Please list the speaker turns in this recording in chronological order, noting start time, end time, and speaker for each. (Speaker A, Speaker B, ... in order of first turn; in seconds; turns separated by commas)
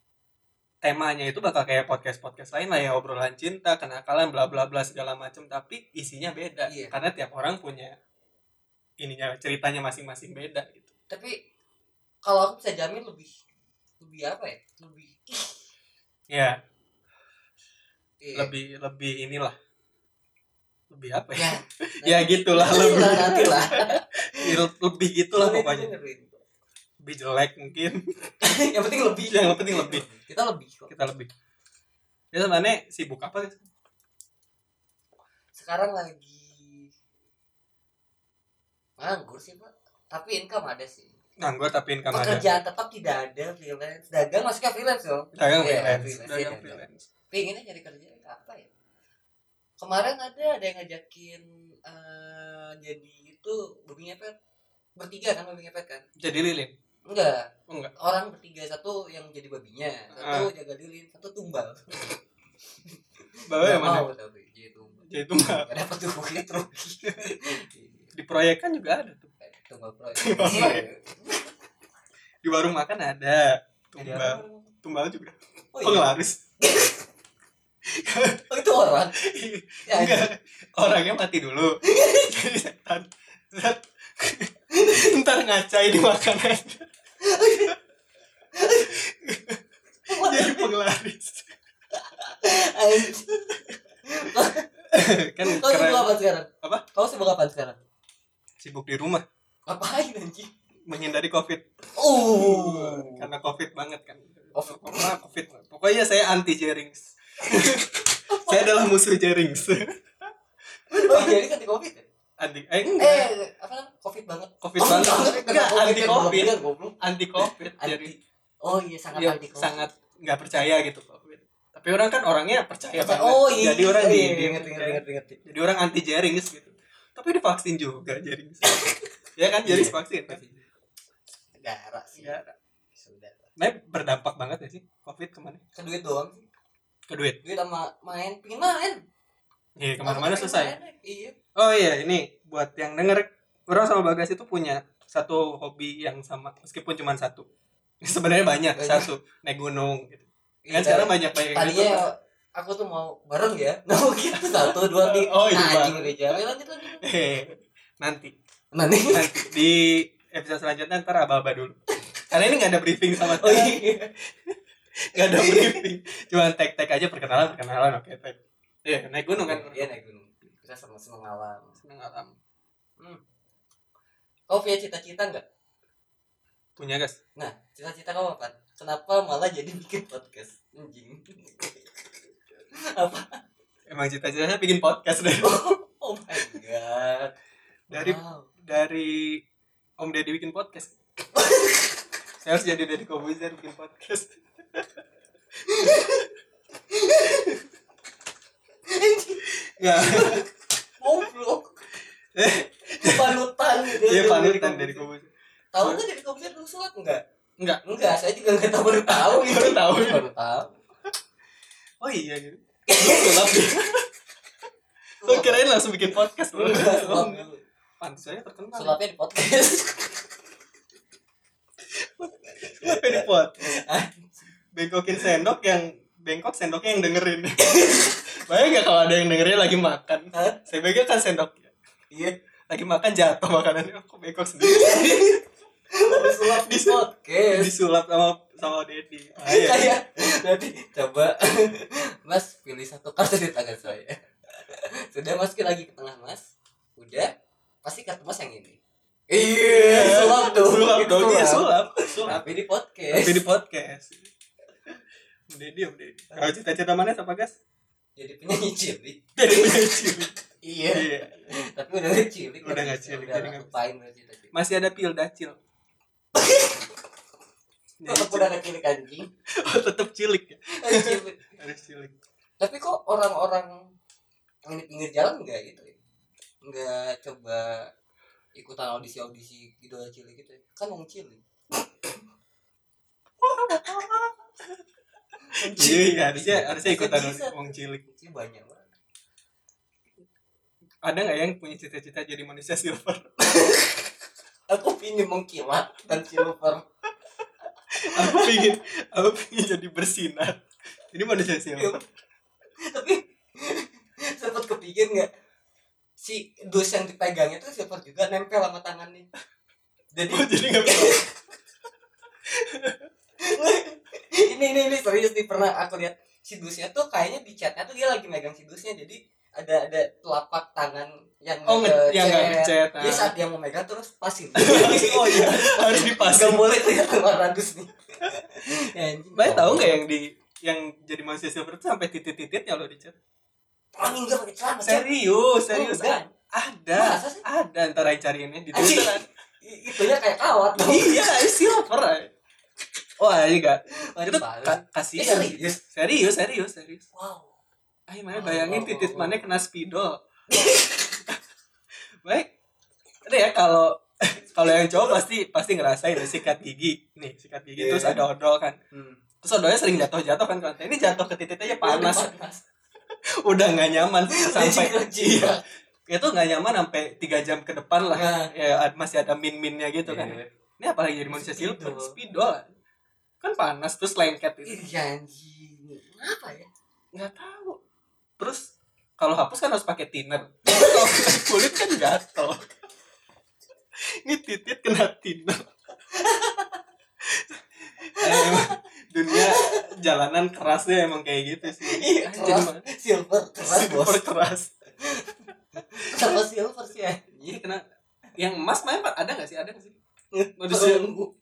Speaker A: 0.8-7.9, Speaker B: 6.7-6.9, Speaker A: 9.0-10.9, Speaker B: 11.1-11.4, Speaker B: 12.2-13.3, Speaker B: 14.0-15.6, Speaker A: 16.3-16.6, Speaker B: 18.2-18.5, Speaker A: 18.3-19.5, Speaker A: 20.9-25.9, Speaker B: 21.3-24.5, Speaker B: 25.3-26.4, Speaker A: 27.0-28.0, Speaker B: 28.4-30.9, Speaker A: 29.3-30.1, Speaker A: 30.9-31.3, Speaker A: 32.3-33.6, Speaker B: 35.5-36.9, Speaker B: 39.0-41.1, Speaker A: 41.4-42.5, Speaker B: 42.1-48.7, Speaker A: 45.3-47.0, Speaker B: 49.8-54.3, Speaker B: 55.0-56.0, Speaker A: 56.2-56.7, Speaker B: 57.1-62.1, Speaker A: 60.1-60.5, Speaker A: 63.5-64.1, Speaker B: 63.6-68.1, Speaker A: 65.0-65.7, Speaker A: 67.0-67.3, Speaker A: 68.1-69.3, Speaker B: 69.4-71.5, Speaker A: 70.2-70.9, Speaker A: 72.4-76.4, Speaker B: 74.0-74.6, Speaker B: 75.7-77.0, Speaker A: 77.9-78.4, Speaker B: 78.5-79.1, Speaker A: 79.2-86.8, Speaker B: 79.8-80.3, Speaker B: 81.8-82.3, Speaker B: 84.7-85.1, Speaker B: 87.2-87.8, Speaker B: 88.5-89.0, Speaker A: 88.9-89.6, Speaker B: 90.1-90.7, Speaker A: 90.1-91.5, Speaker B: 91.9-93.3, Speaker A: 93.3-93.6, Speaker B: 94.0-94.7, Speaker A: 94.9-96.8, Speaker B: 95.4-97.8, Speaker A: 98.6-99.2, Speaker B: 99.7-100.5, Speaker A: 100.9-101.6, Speaker B: 102.0-103.3, Speaker A: 102.2-110.3, Speaker B: 104.5-105.1, Speaker B: 107.4-108.7, Speaker A: 110.9-111.4, Speaker B: 110.9-112.0, Speaker A: 112.4-113.3, Speaker B: 113.0-119.9, Speaker A: 114.6-118.1, Speaker A: 119.1-128.8, Speaker B: 122.9-125.4, Speaker B: 128.6-129.0, Speaker A: 129.4-130.4, Speaker B: 129.6-130.6, Speaker B: 131.6-132.4, Speaker A: 132.2-132.5, Speaker B: 132.9-133.5, Speaker A: 133.6-135.6, Speaker B: 135.7-136.4, Speaker A: 137.1-137.4, Speaker B: 137.4-139.0, Speaker A: 139.8-140.8, Speaker B: 140.0-141.3, Speaker A: 141.5-147.4, Speaker A: 148.0-152.1, Speaker B: 148.7-149.1, Speaker B: 150.6-157.0, Speaker A: 154.3-156.4, Speaker A: 157.0-158.3, Speaker B: 158.7-159.3, Speaker A: 159.1-161.8, Speaker A: 162.3-163.8, Speaker B: 163.2-164.1, Speaker A: 165.1-169.9, Speaker B: 165.2-165.8, Speaker B: 169.4-171.8, Speaker A: 171.8-172.3, Speaker B: 174.5-175.4, Speaker A: 176.8-177.2, Speaker B: 177.3-181.8, Speaker B: 182.8-183.4, Speaker A: 183.9-185.8, Speaker B: 185.4-187.3, Speaker A: 187.9-189.4, Speaker B: 187.9-188.5, Speaker A: 190.0-190.9, Speaker B: 191.3-192.0, Speaker A: 192.4-194.9, Speaker B: 195.6-196.2, Speaker A: 195.8-196.2, Speaker B: 196.9-197.5, Speaker B: 198.9-200.5, Speaker A: 199.5-200.4, Speaker B: 201.0-201.8, Speaker A: 202.3-206.0, Speaker B: 202.9-205.1, Speaker B: 205.7-207.2, Speaker B: 207.8-210.8, Speaker A: 209.0-210.2, Speaker A: 212.0-214.1, Speaker B: 212.9-213.7, Speaker B: 215.2-215.6, Speaker A: 215.2-217.4, Speaker B: 216.5-217.6, Speaker A: 218.0-219.0, Speaker B: 218.7-220.2, Speaker A: 222.2-223.7, Speaker B: 222.4-224.5, Speaker A: 224.7-231.7, Speaker B: 227.6-228.2, Speaker B: 230.3-230.6, Speaker B: 232.1-232.3, Speaker A: 232.7-235.3, Speaker B: 234.6-237.7, Speaker A: 236.1-239.9, Speaker B: 239.4-246.4, Speaker B: 247.0-247.3, Speaker B: 247.8-248.8, Speaker B: 249.3-253.4, Speaker A: 249.6-252.4, Speaker A: 253.1-254.2, Speaker A: 255.5-257.6, Speaker B: 258.2-260.0, Speaker A: 259.4-260.3, Speaker B: 260.6-264.5, Speaker A: 260.9-261.6, Speaker A: 262.6-263.7, Speaker A: 264.5-265.6, Speaker B: 266.3-266.9, Speaker A: 268.0-268.5, Speaker B: 268.1-269.3, Speaker A: 269.6-272.1, Speaker B: 270.8-271.4, Speaker B: 272.6-273.9, Speaker B: 274.6-275.9, Speaker B: 276.6-277.9, Speaker B: 278.5-282.1, Speaker A: 283.4-284.8, Speaker B: 285.5-288.9, Speaker A: 285.6-288.0, Speaker A: 291.0-293.2, Speaker B: 293.4-294.0, Speaker B: 294.7-296.8, Speaker A: 298.0-300.6, Speaker B: 298.1-298.7, Speaker A: 301.1-302.0, Speaker B: 301.8-302.0, Speaker B: 302.8-305.3, Speaker B: 306.2-309.3, Speaker B: 310.1-311.3, Speaker A: 310.3-311.2, Speaker A: 312.5-313.1, Speaker B: 313.4-330.0, Speaker A: 321.6-323.3, Speaker A: 324.6-326.8, Speaker A: 329.3-333.1, Speaker B: 333.9-335.1, Speaker A: 334.8-339.2, Speaker B: 335.7-336.3, Speaker B: 336.9-337.4, Speaker B: 338.7-341.3, Speaker A: 340.8-342.3, Speaker A: 343.2-347.1, Speaker B: 344.1-345.8, Speaker B: 347.1-347.5, Speaker A: 348.1-350.2, Speaker B: 348.3-349.4, Speaker B: 350.5-351.2, Speaker A: 352.2-352.5, Speaker A: 353.2-358.8, Speaker B: 357.8-358.2, Speaker B: 358.9-359.2, Speaker A: 359.4-362.3, Speaker B: 361.6-362.6, Speaker A: 363.4-372.7, Speaker B: 364.3-365.6, Speaker B: 368.1-368.5, Speaker B: 370.0-370.5, Speaker B: 371.3-372.1, Speaker A: 373.4-374.8, Speaker B: 374.6-376.7, Speaker A: 377.1-377.8, Speaker A: 378.4-382.7, Speaker B: 380.7-381.4, Speaker A: 384.2-385.7, Speaker B: 386.1-386.8, Speaker A: 387.2-392.8, Speaker B: 388.2-388.8, Speaker B: 389.3-389.8, Speaker B: 391.7-394.2, Speaker A: 393.6-394.7, Speaker B: 395.0-395.3, Speaker B: 395.9-397.4, Speaker A: 396.0-396.4, Speaker A: 397.4-397.8, Speaker A: 398.4-399.9, Speaker B: 400.3-401.3, Speaker A: 400.6-401.1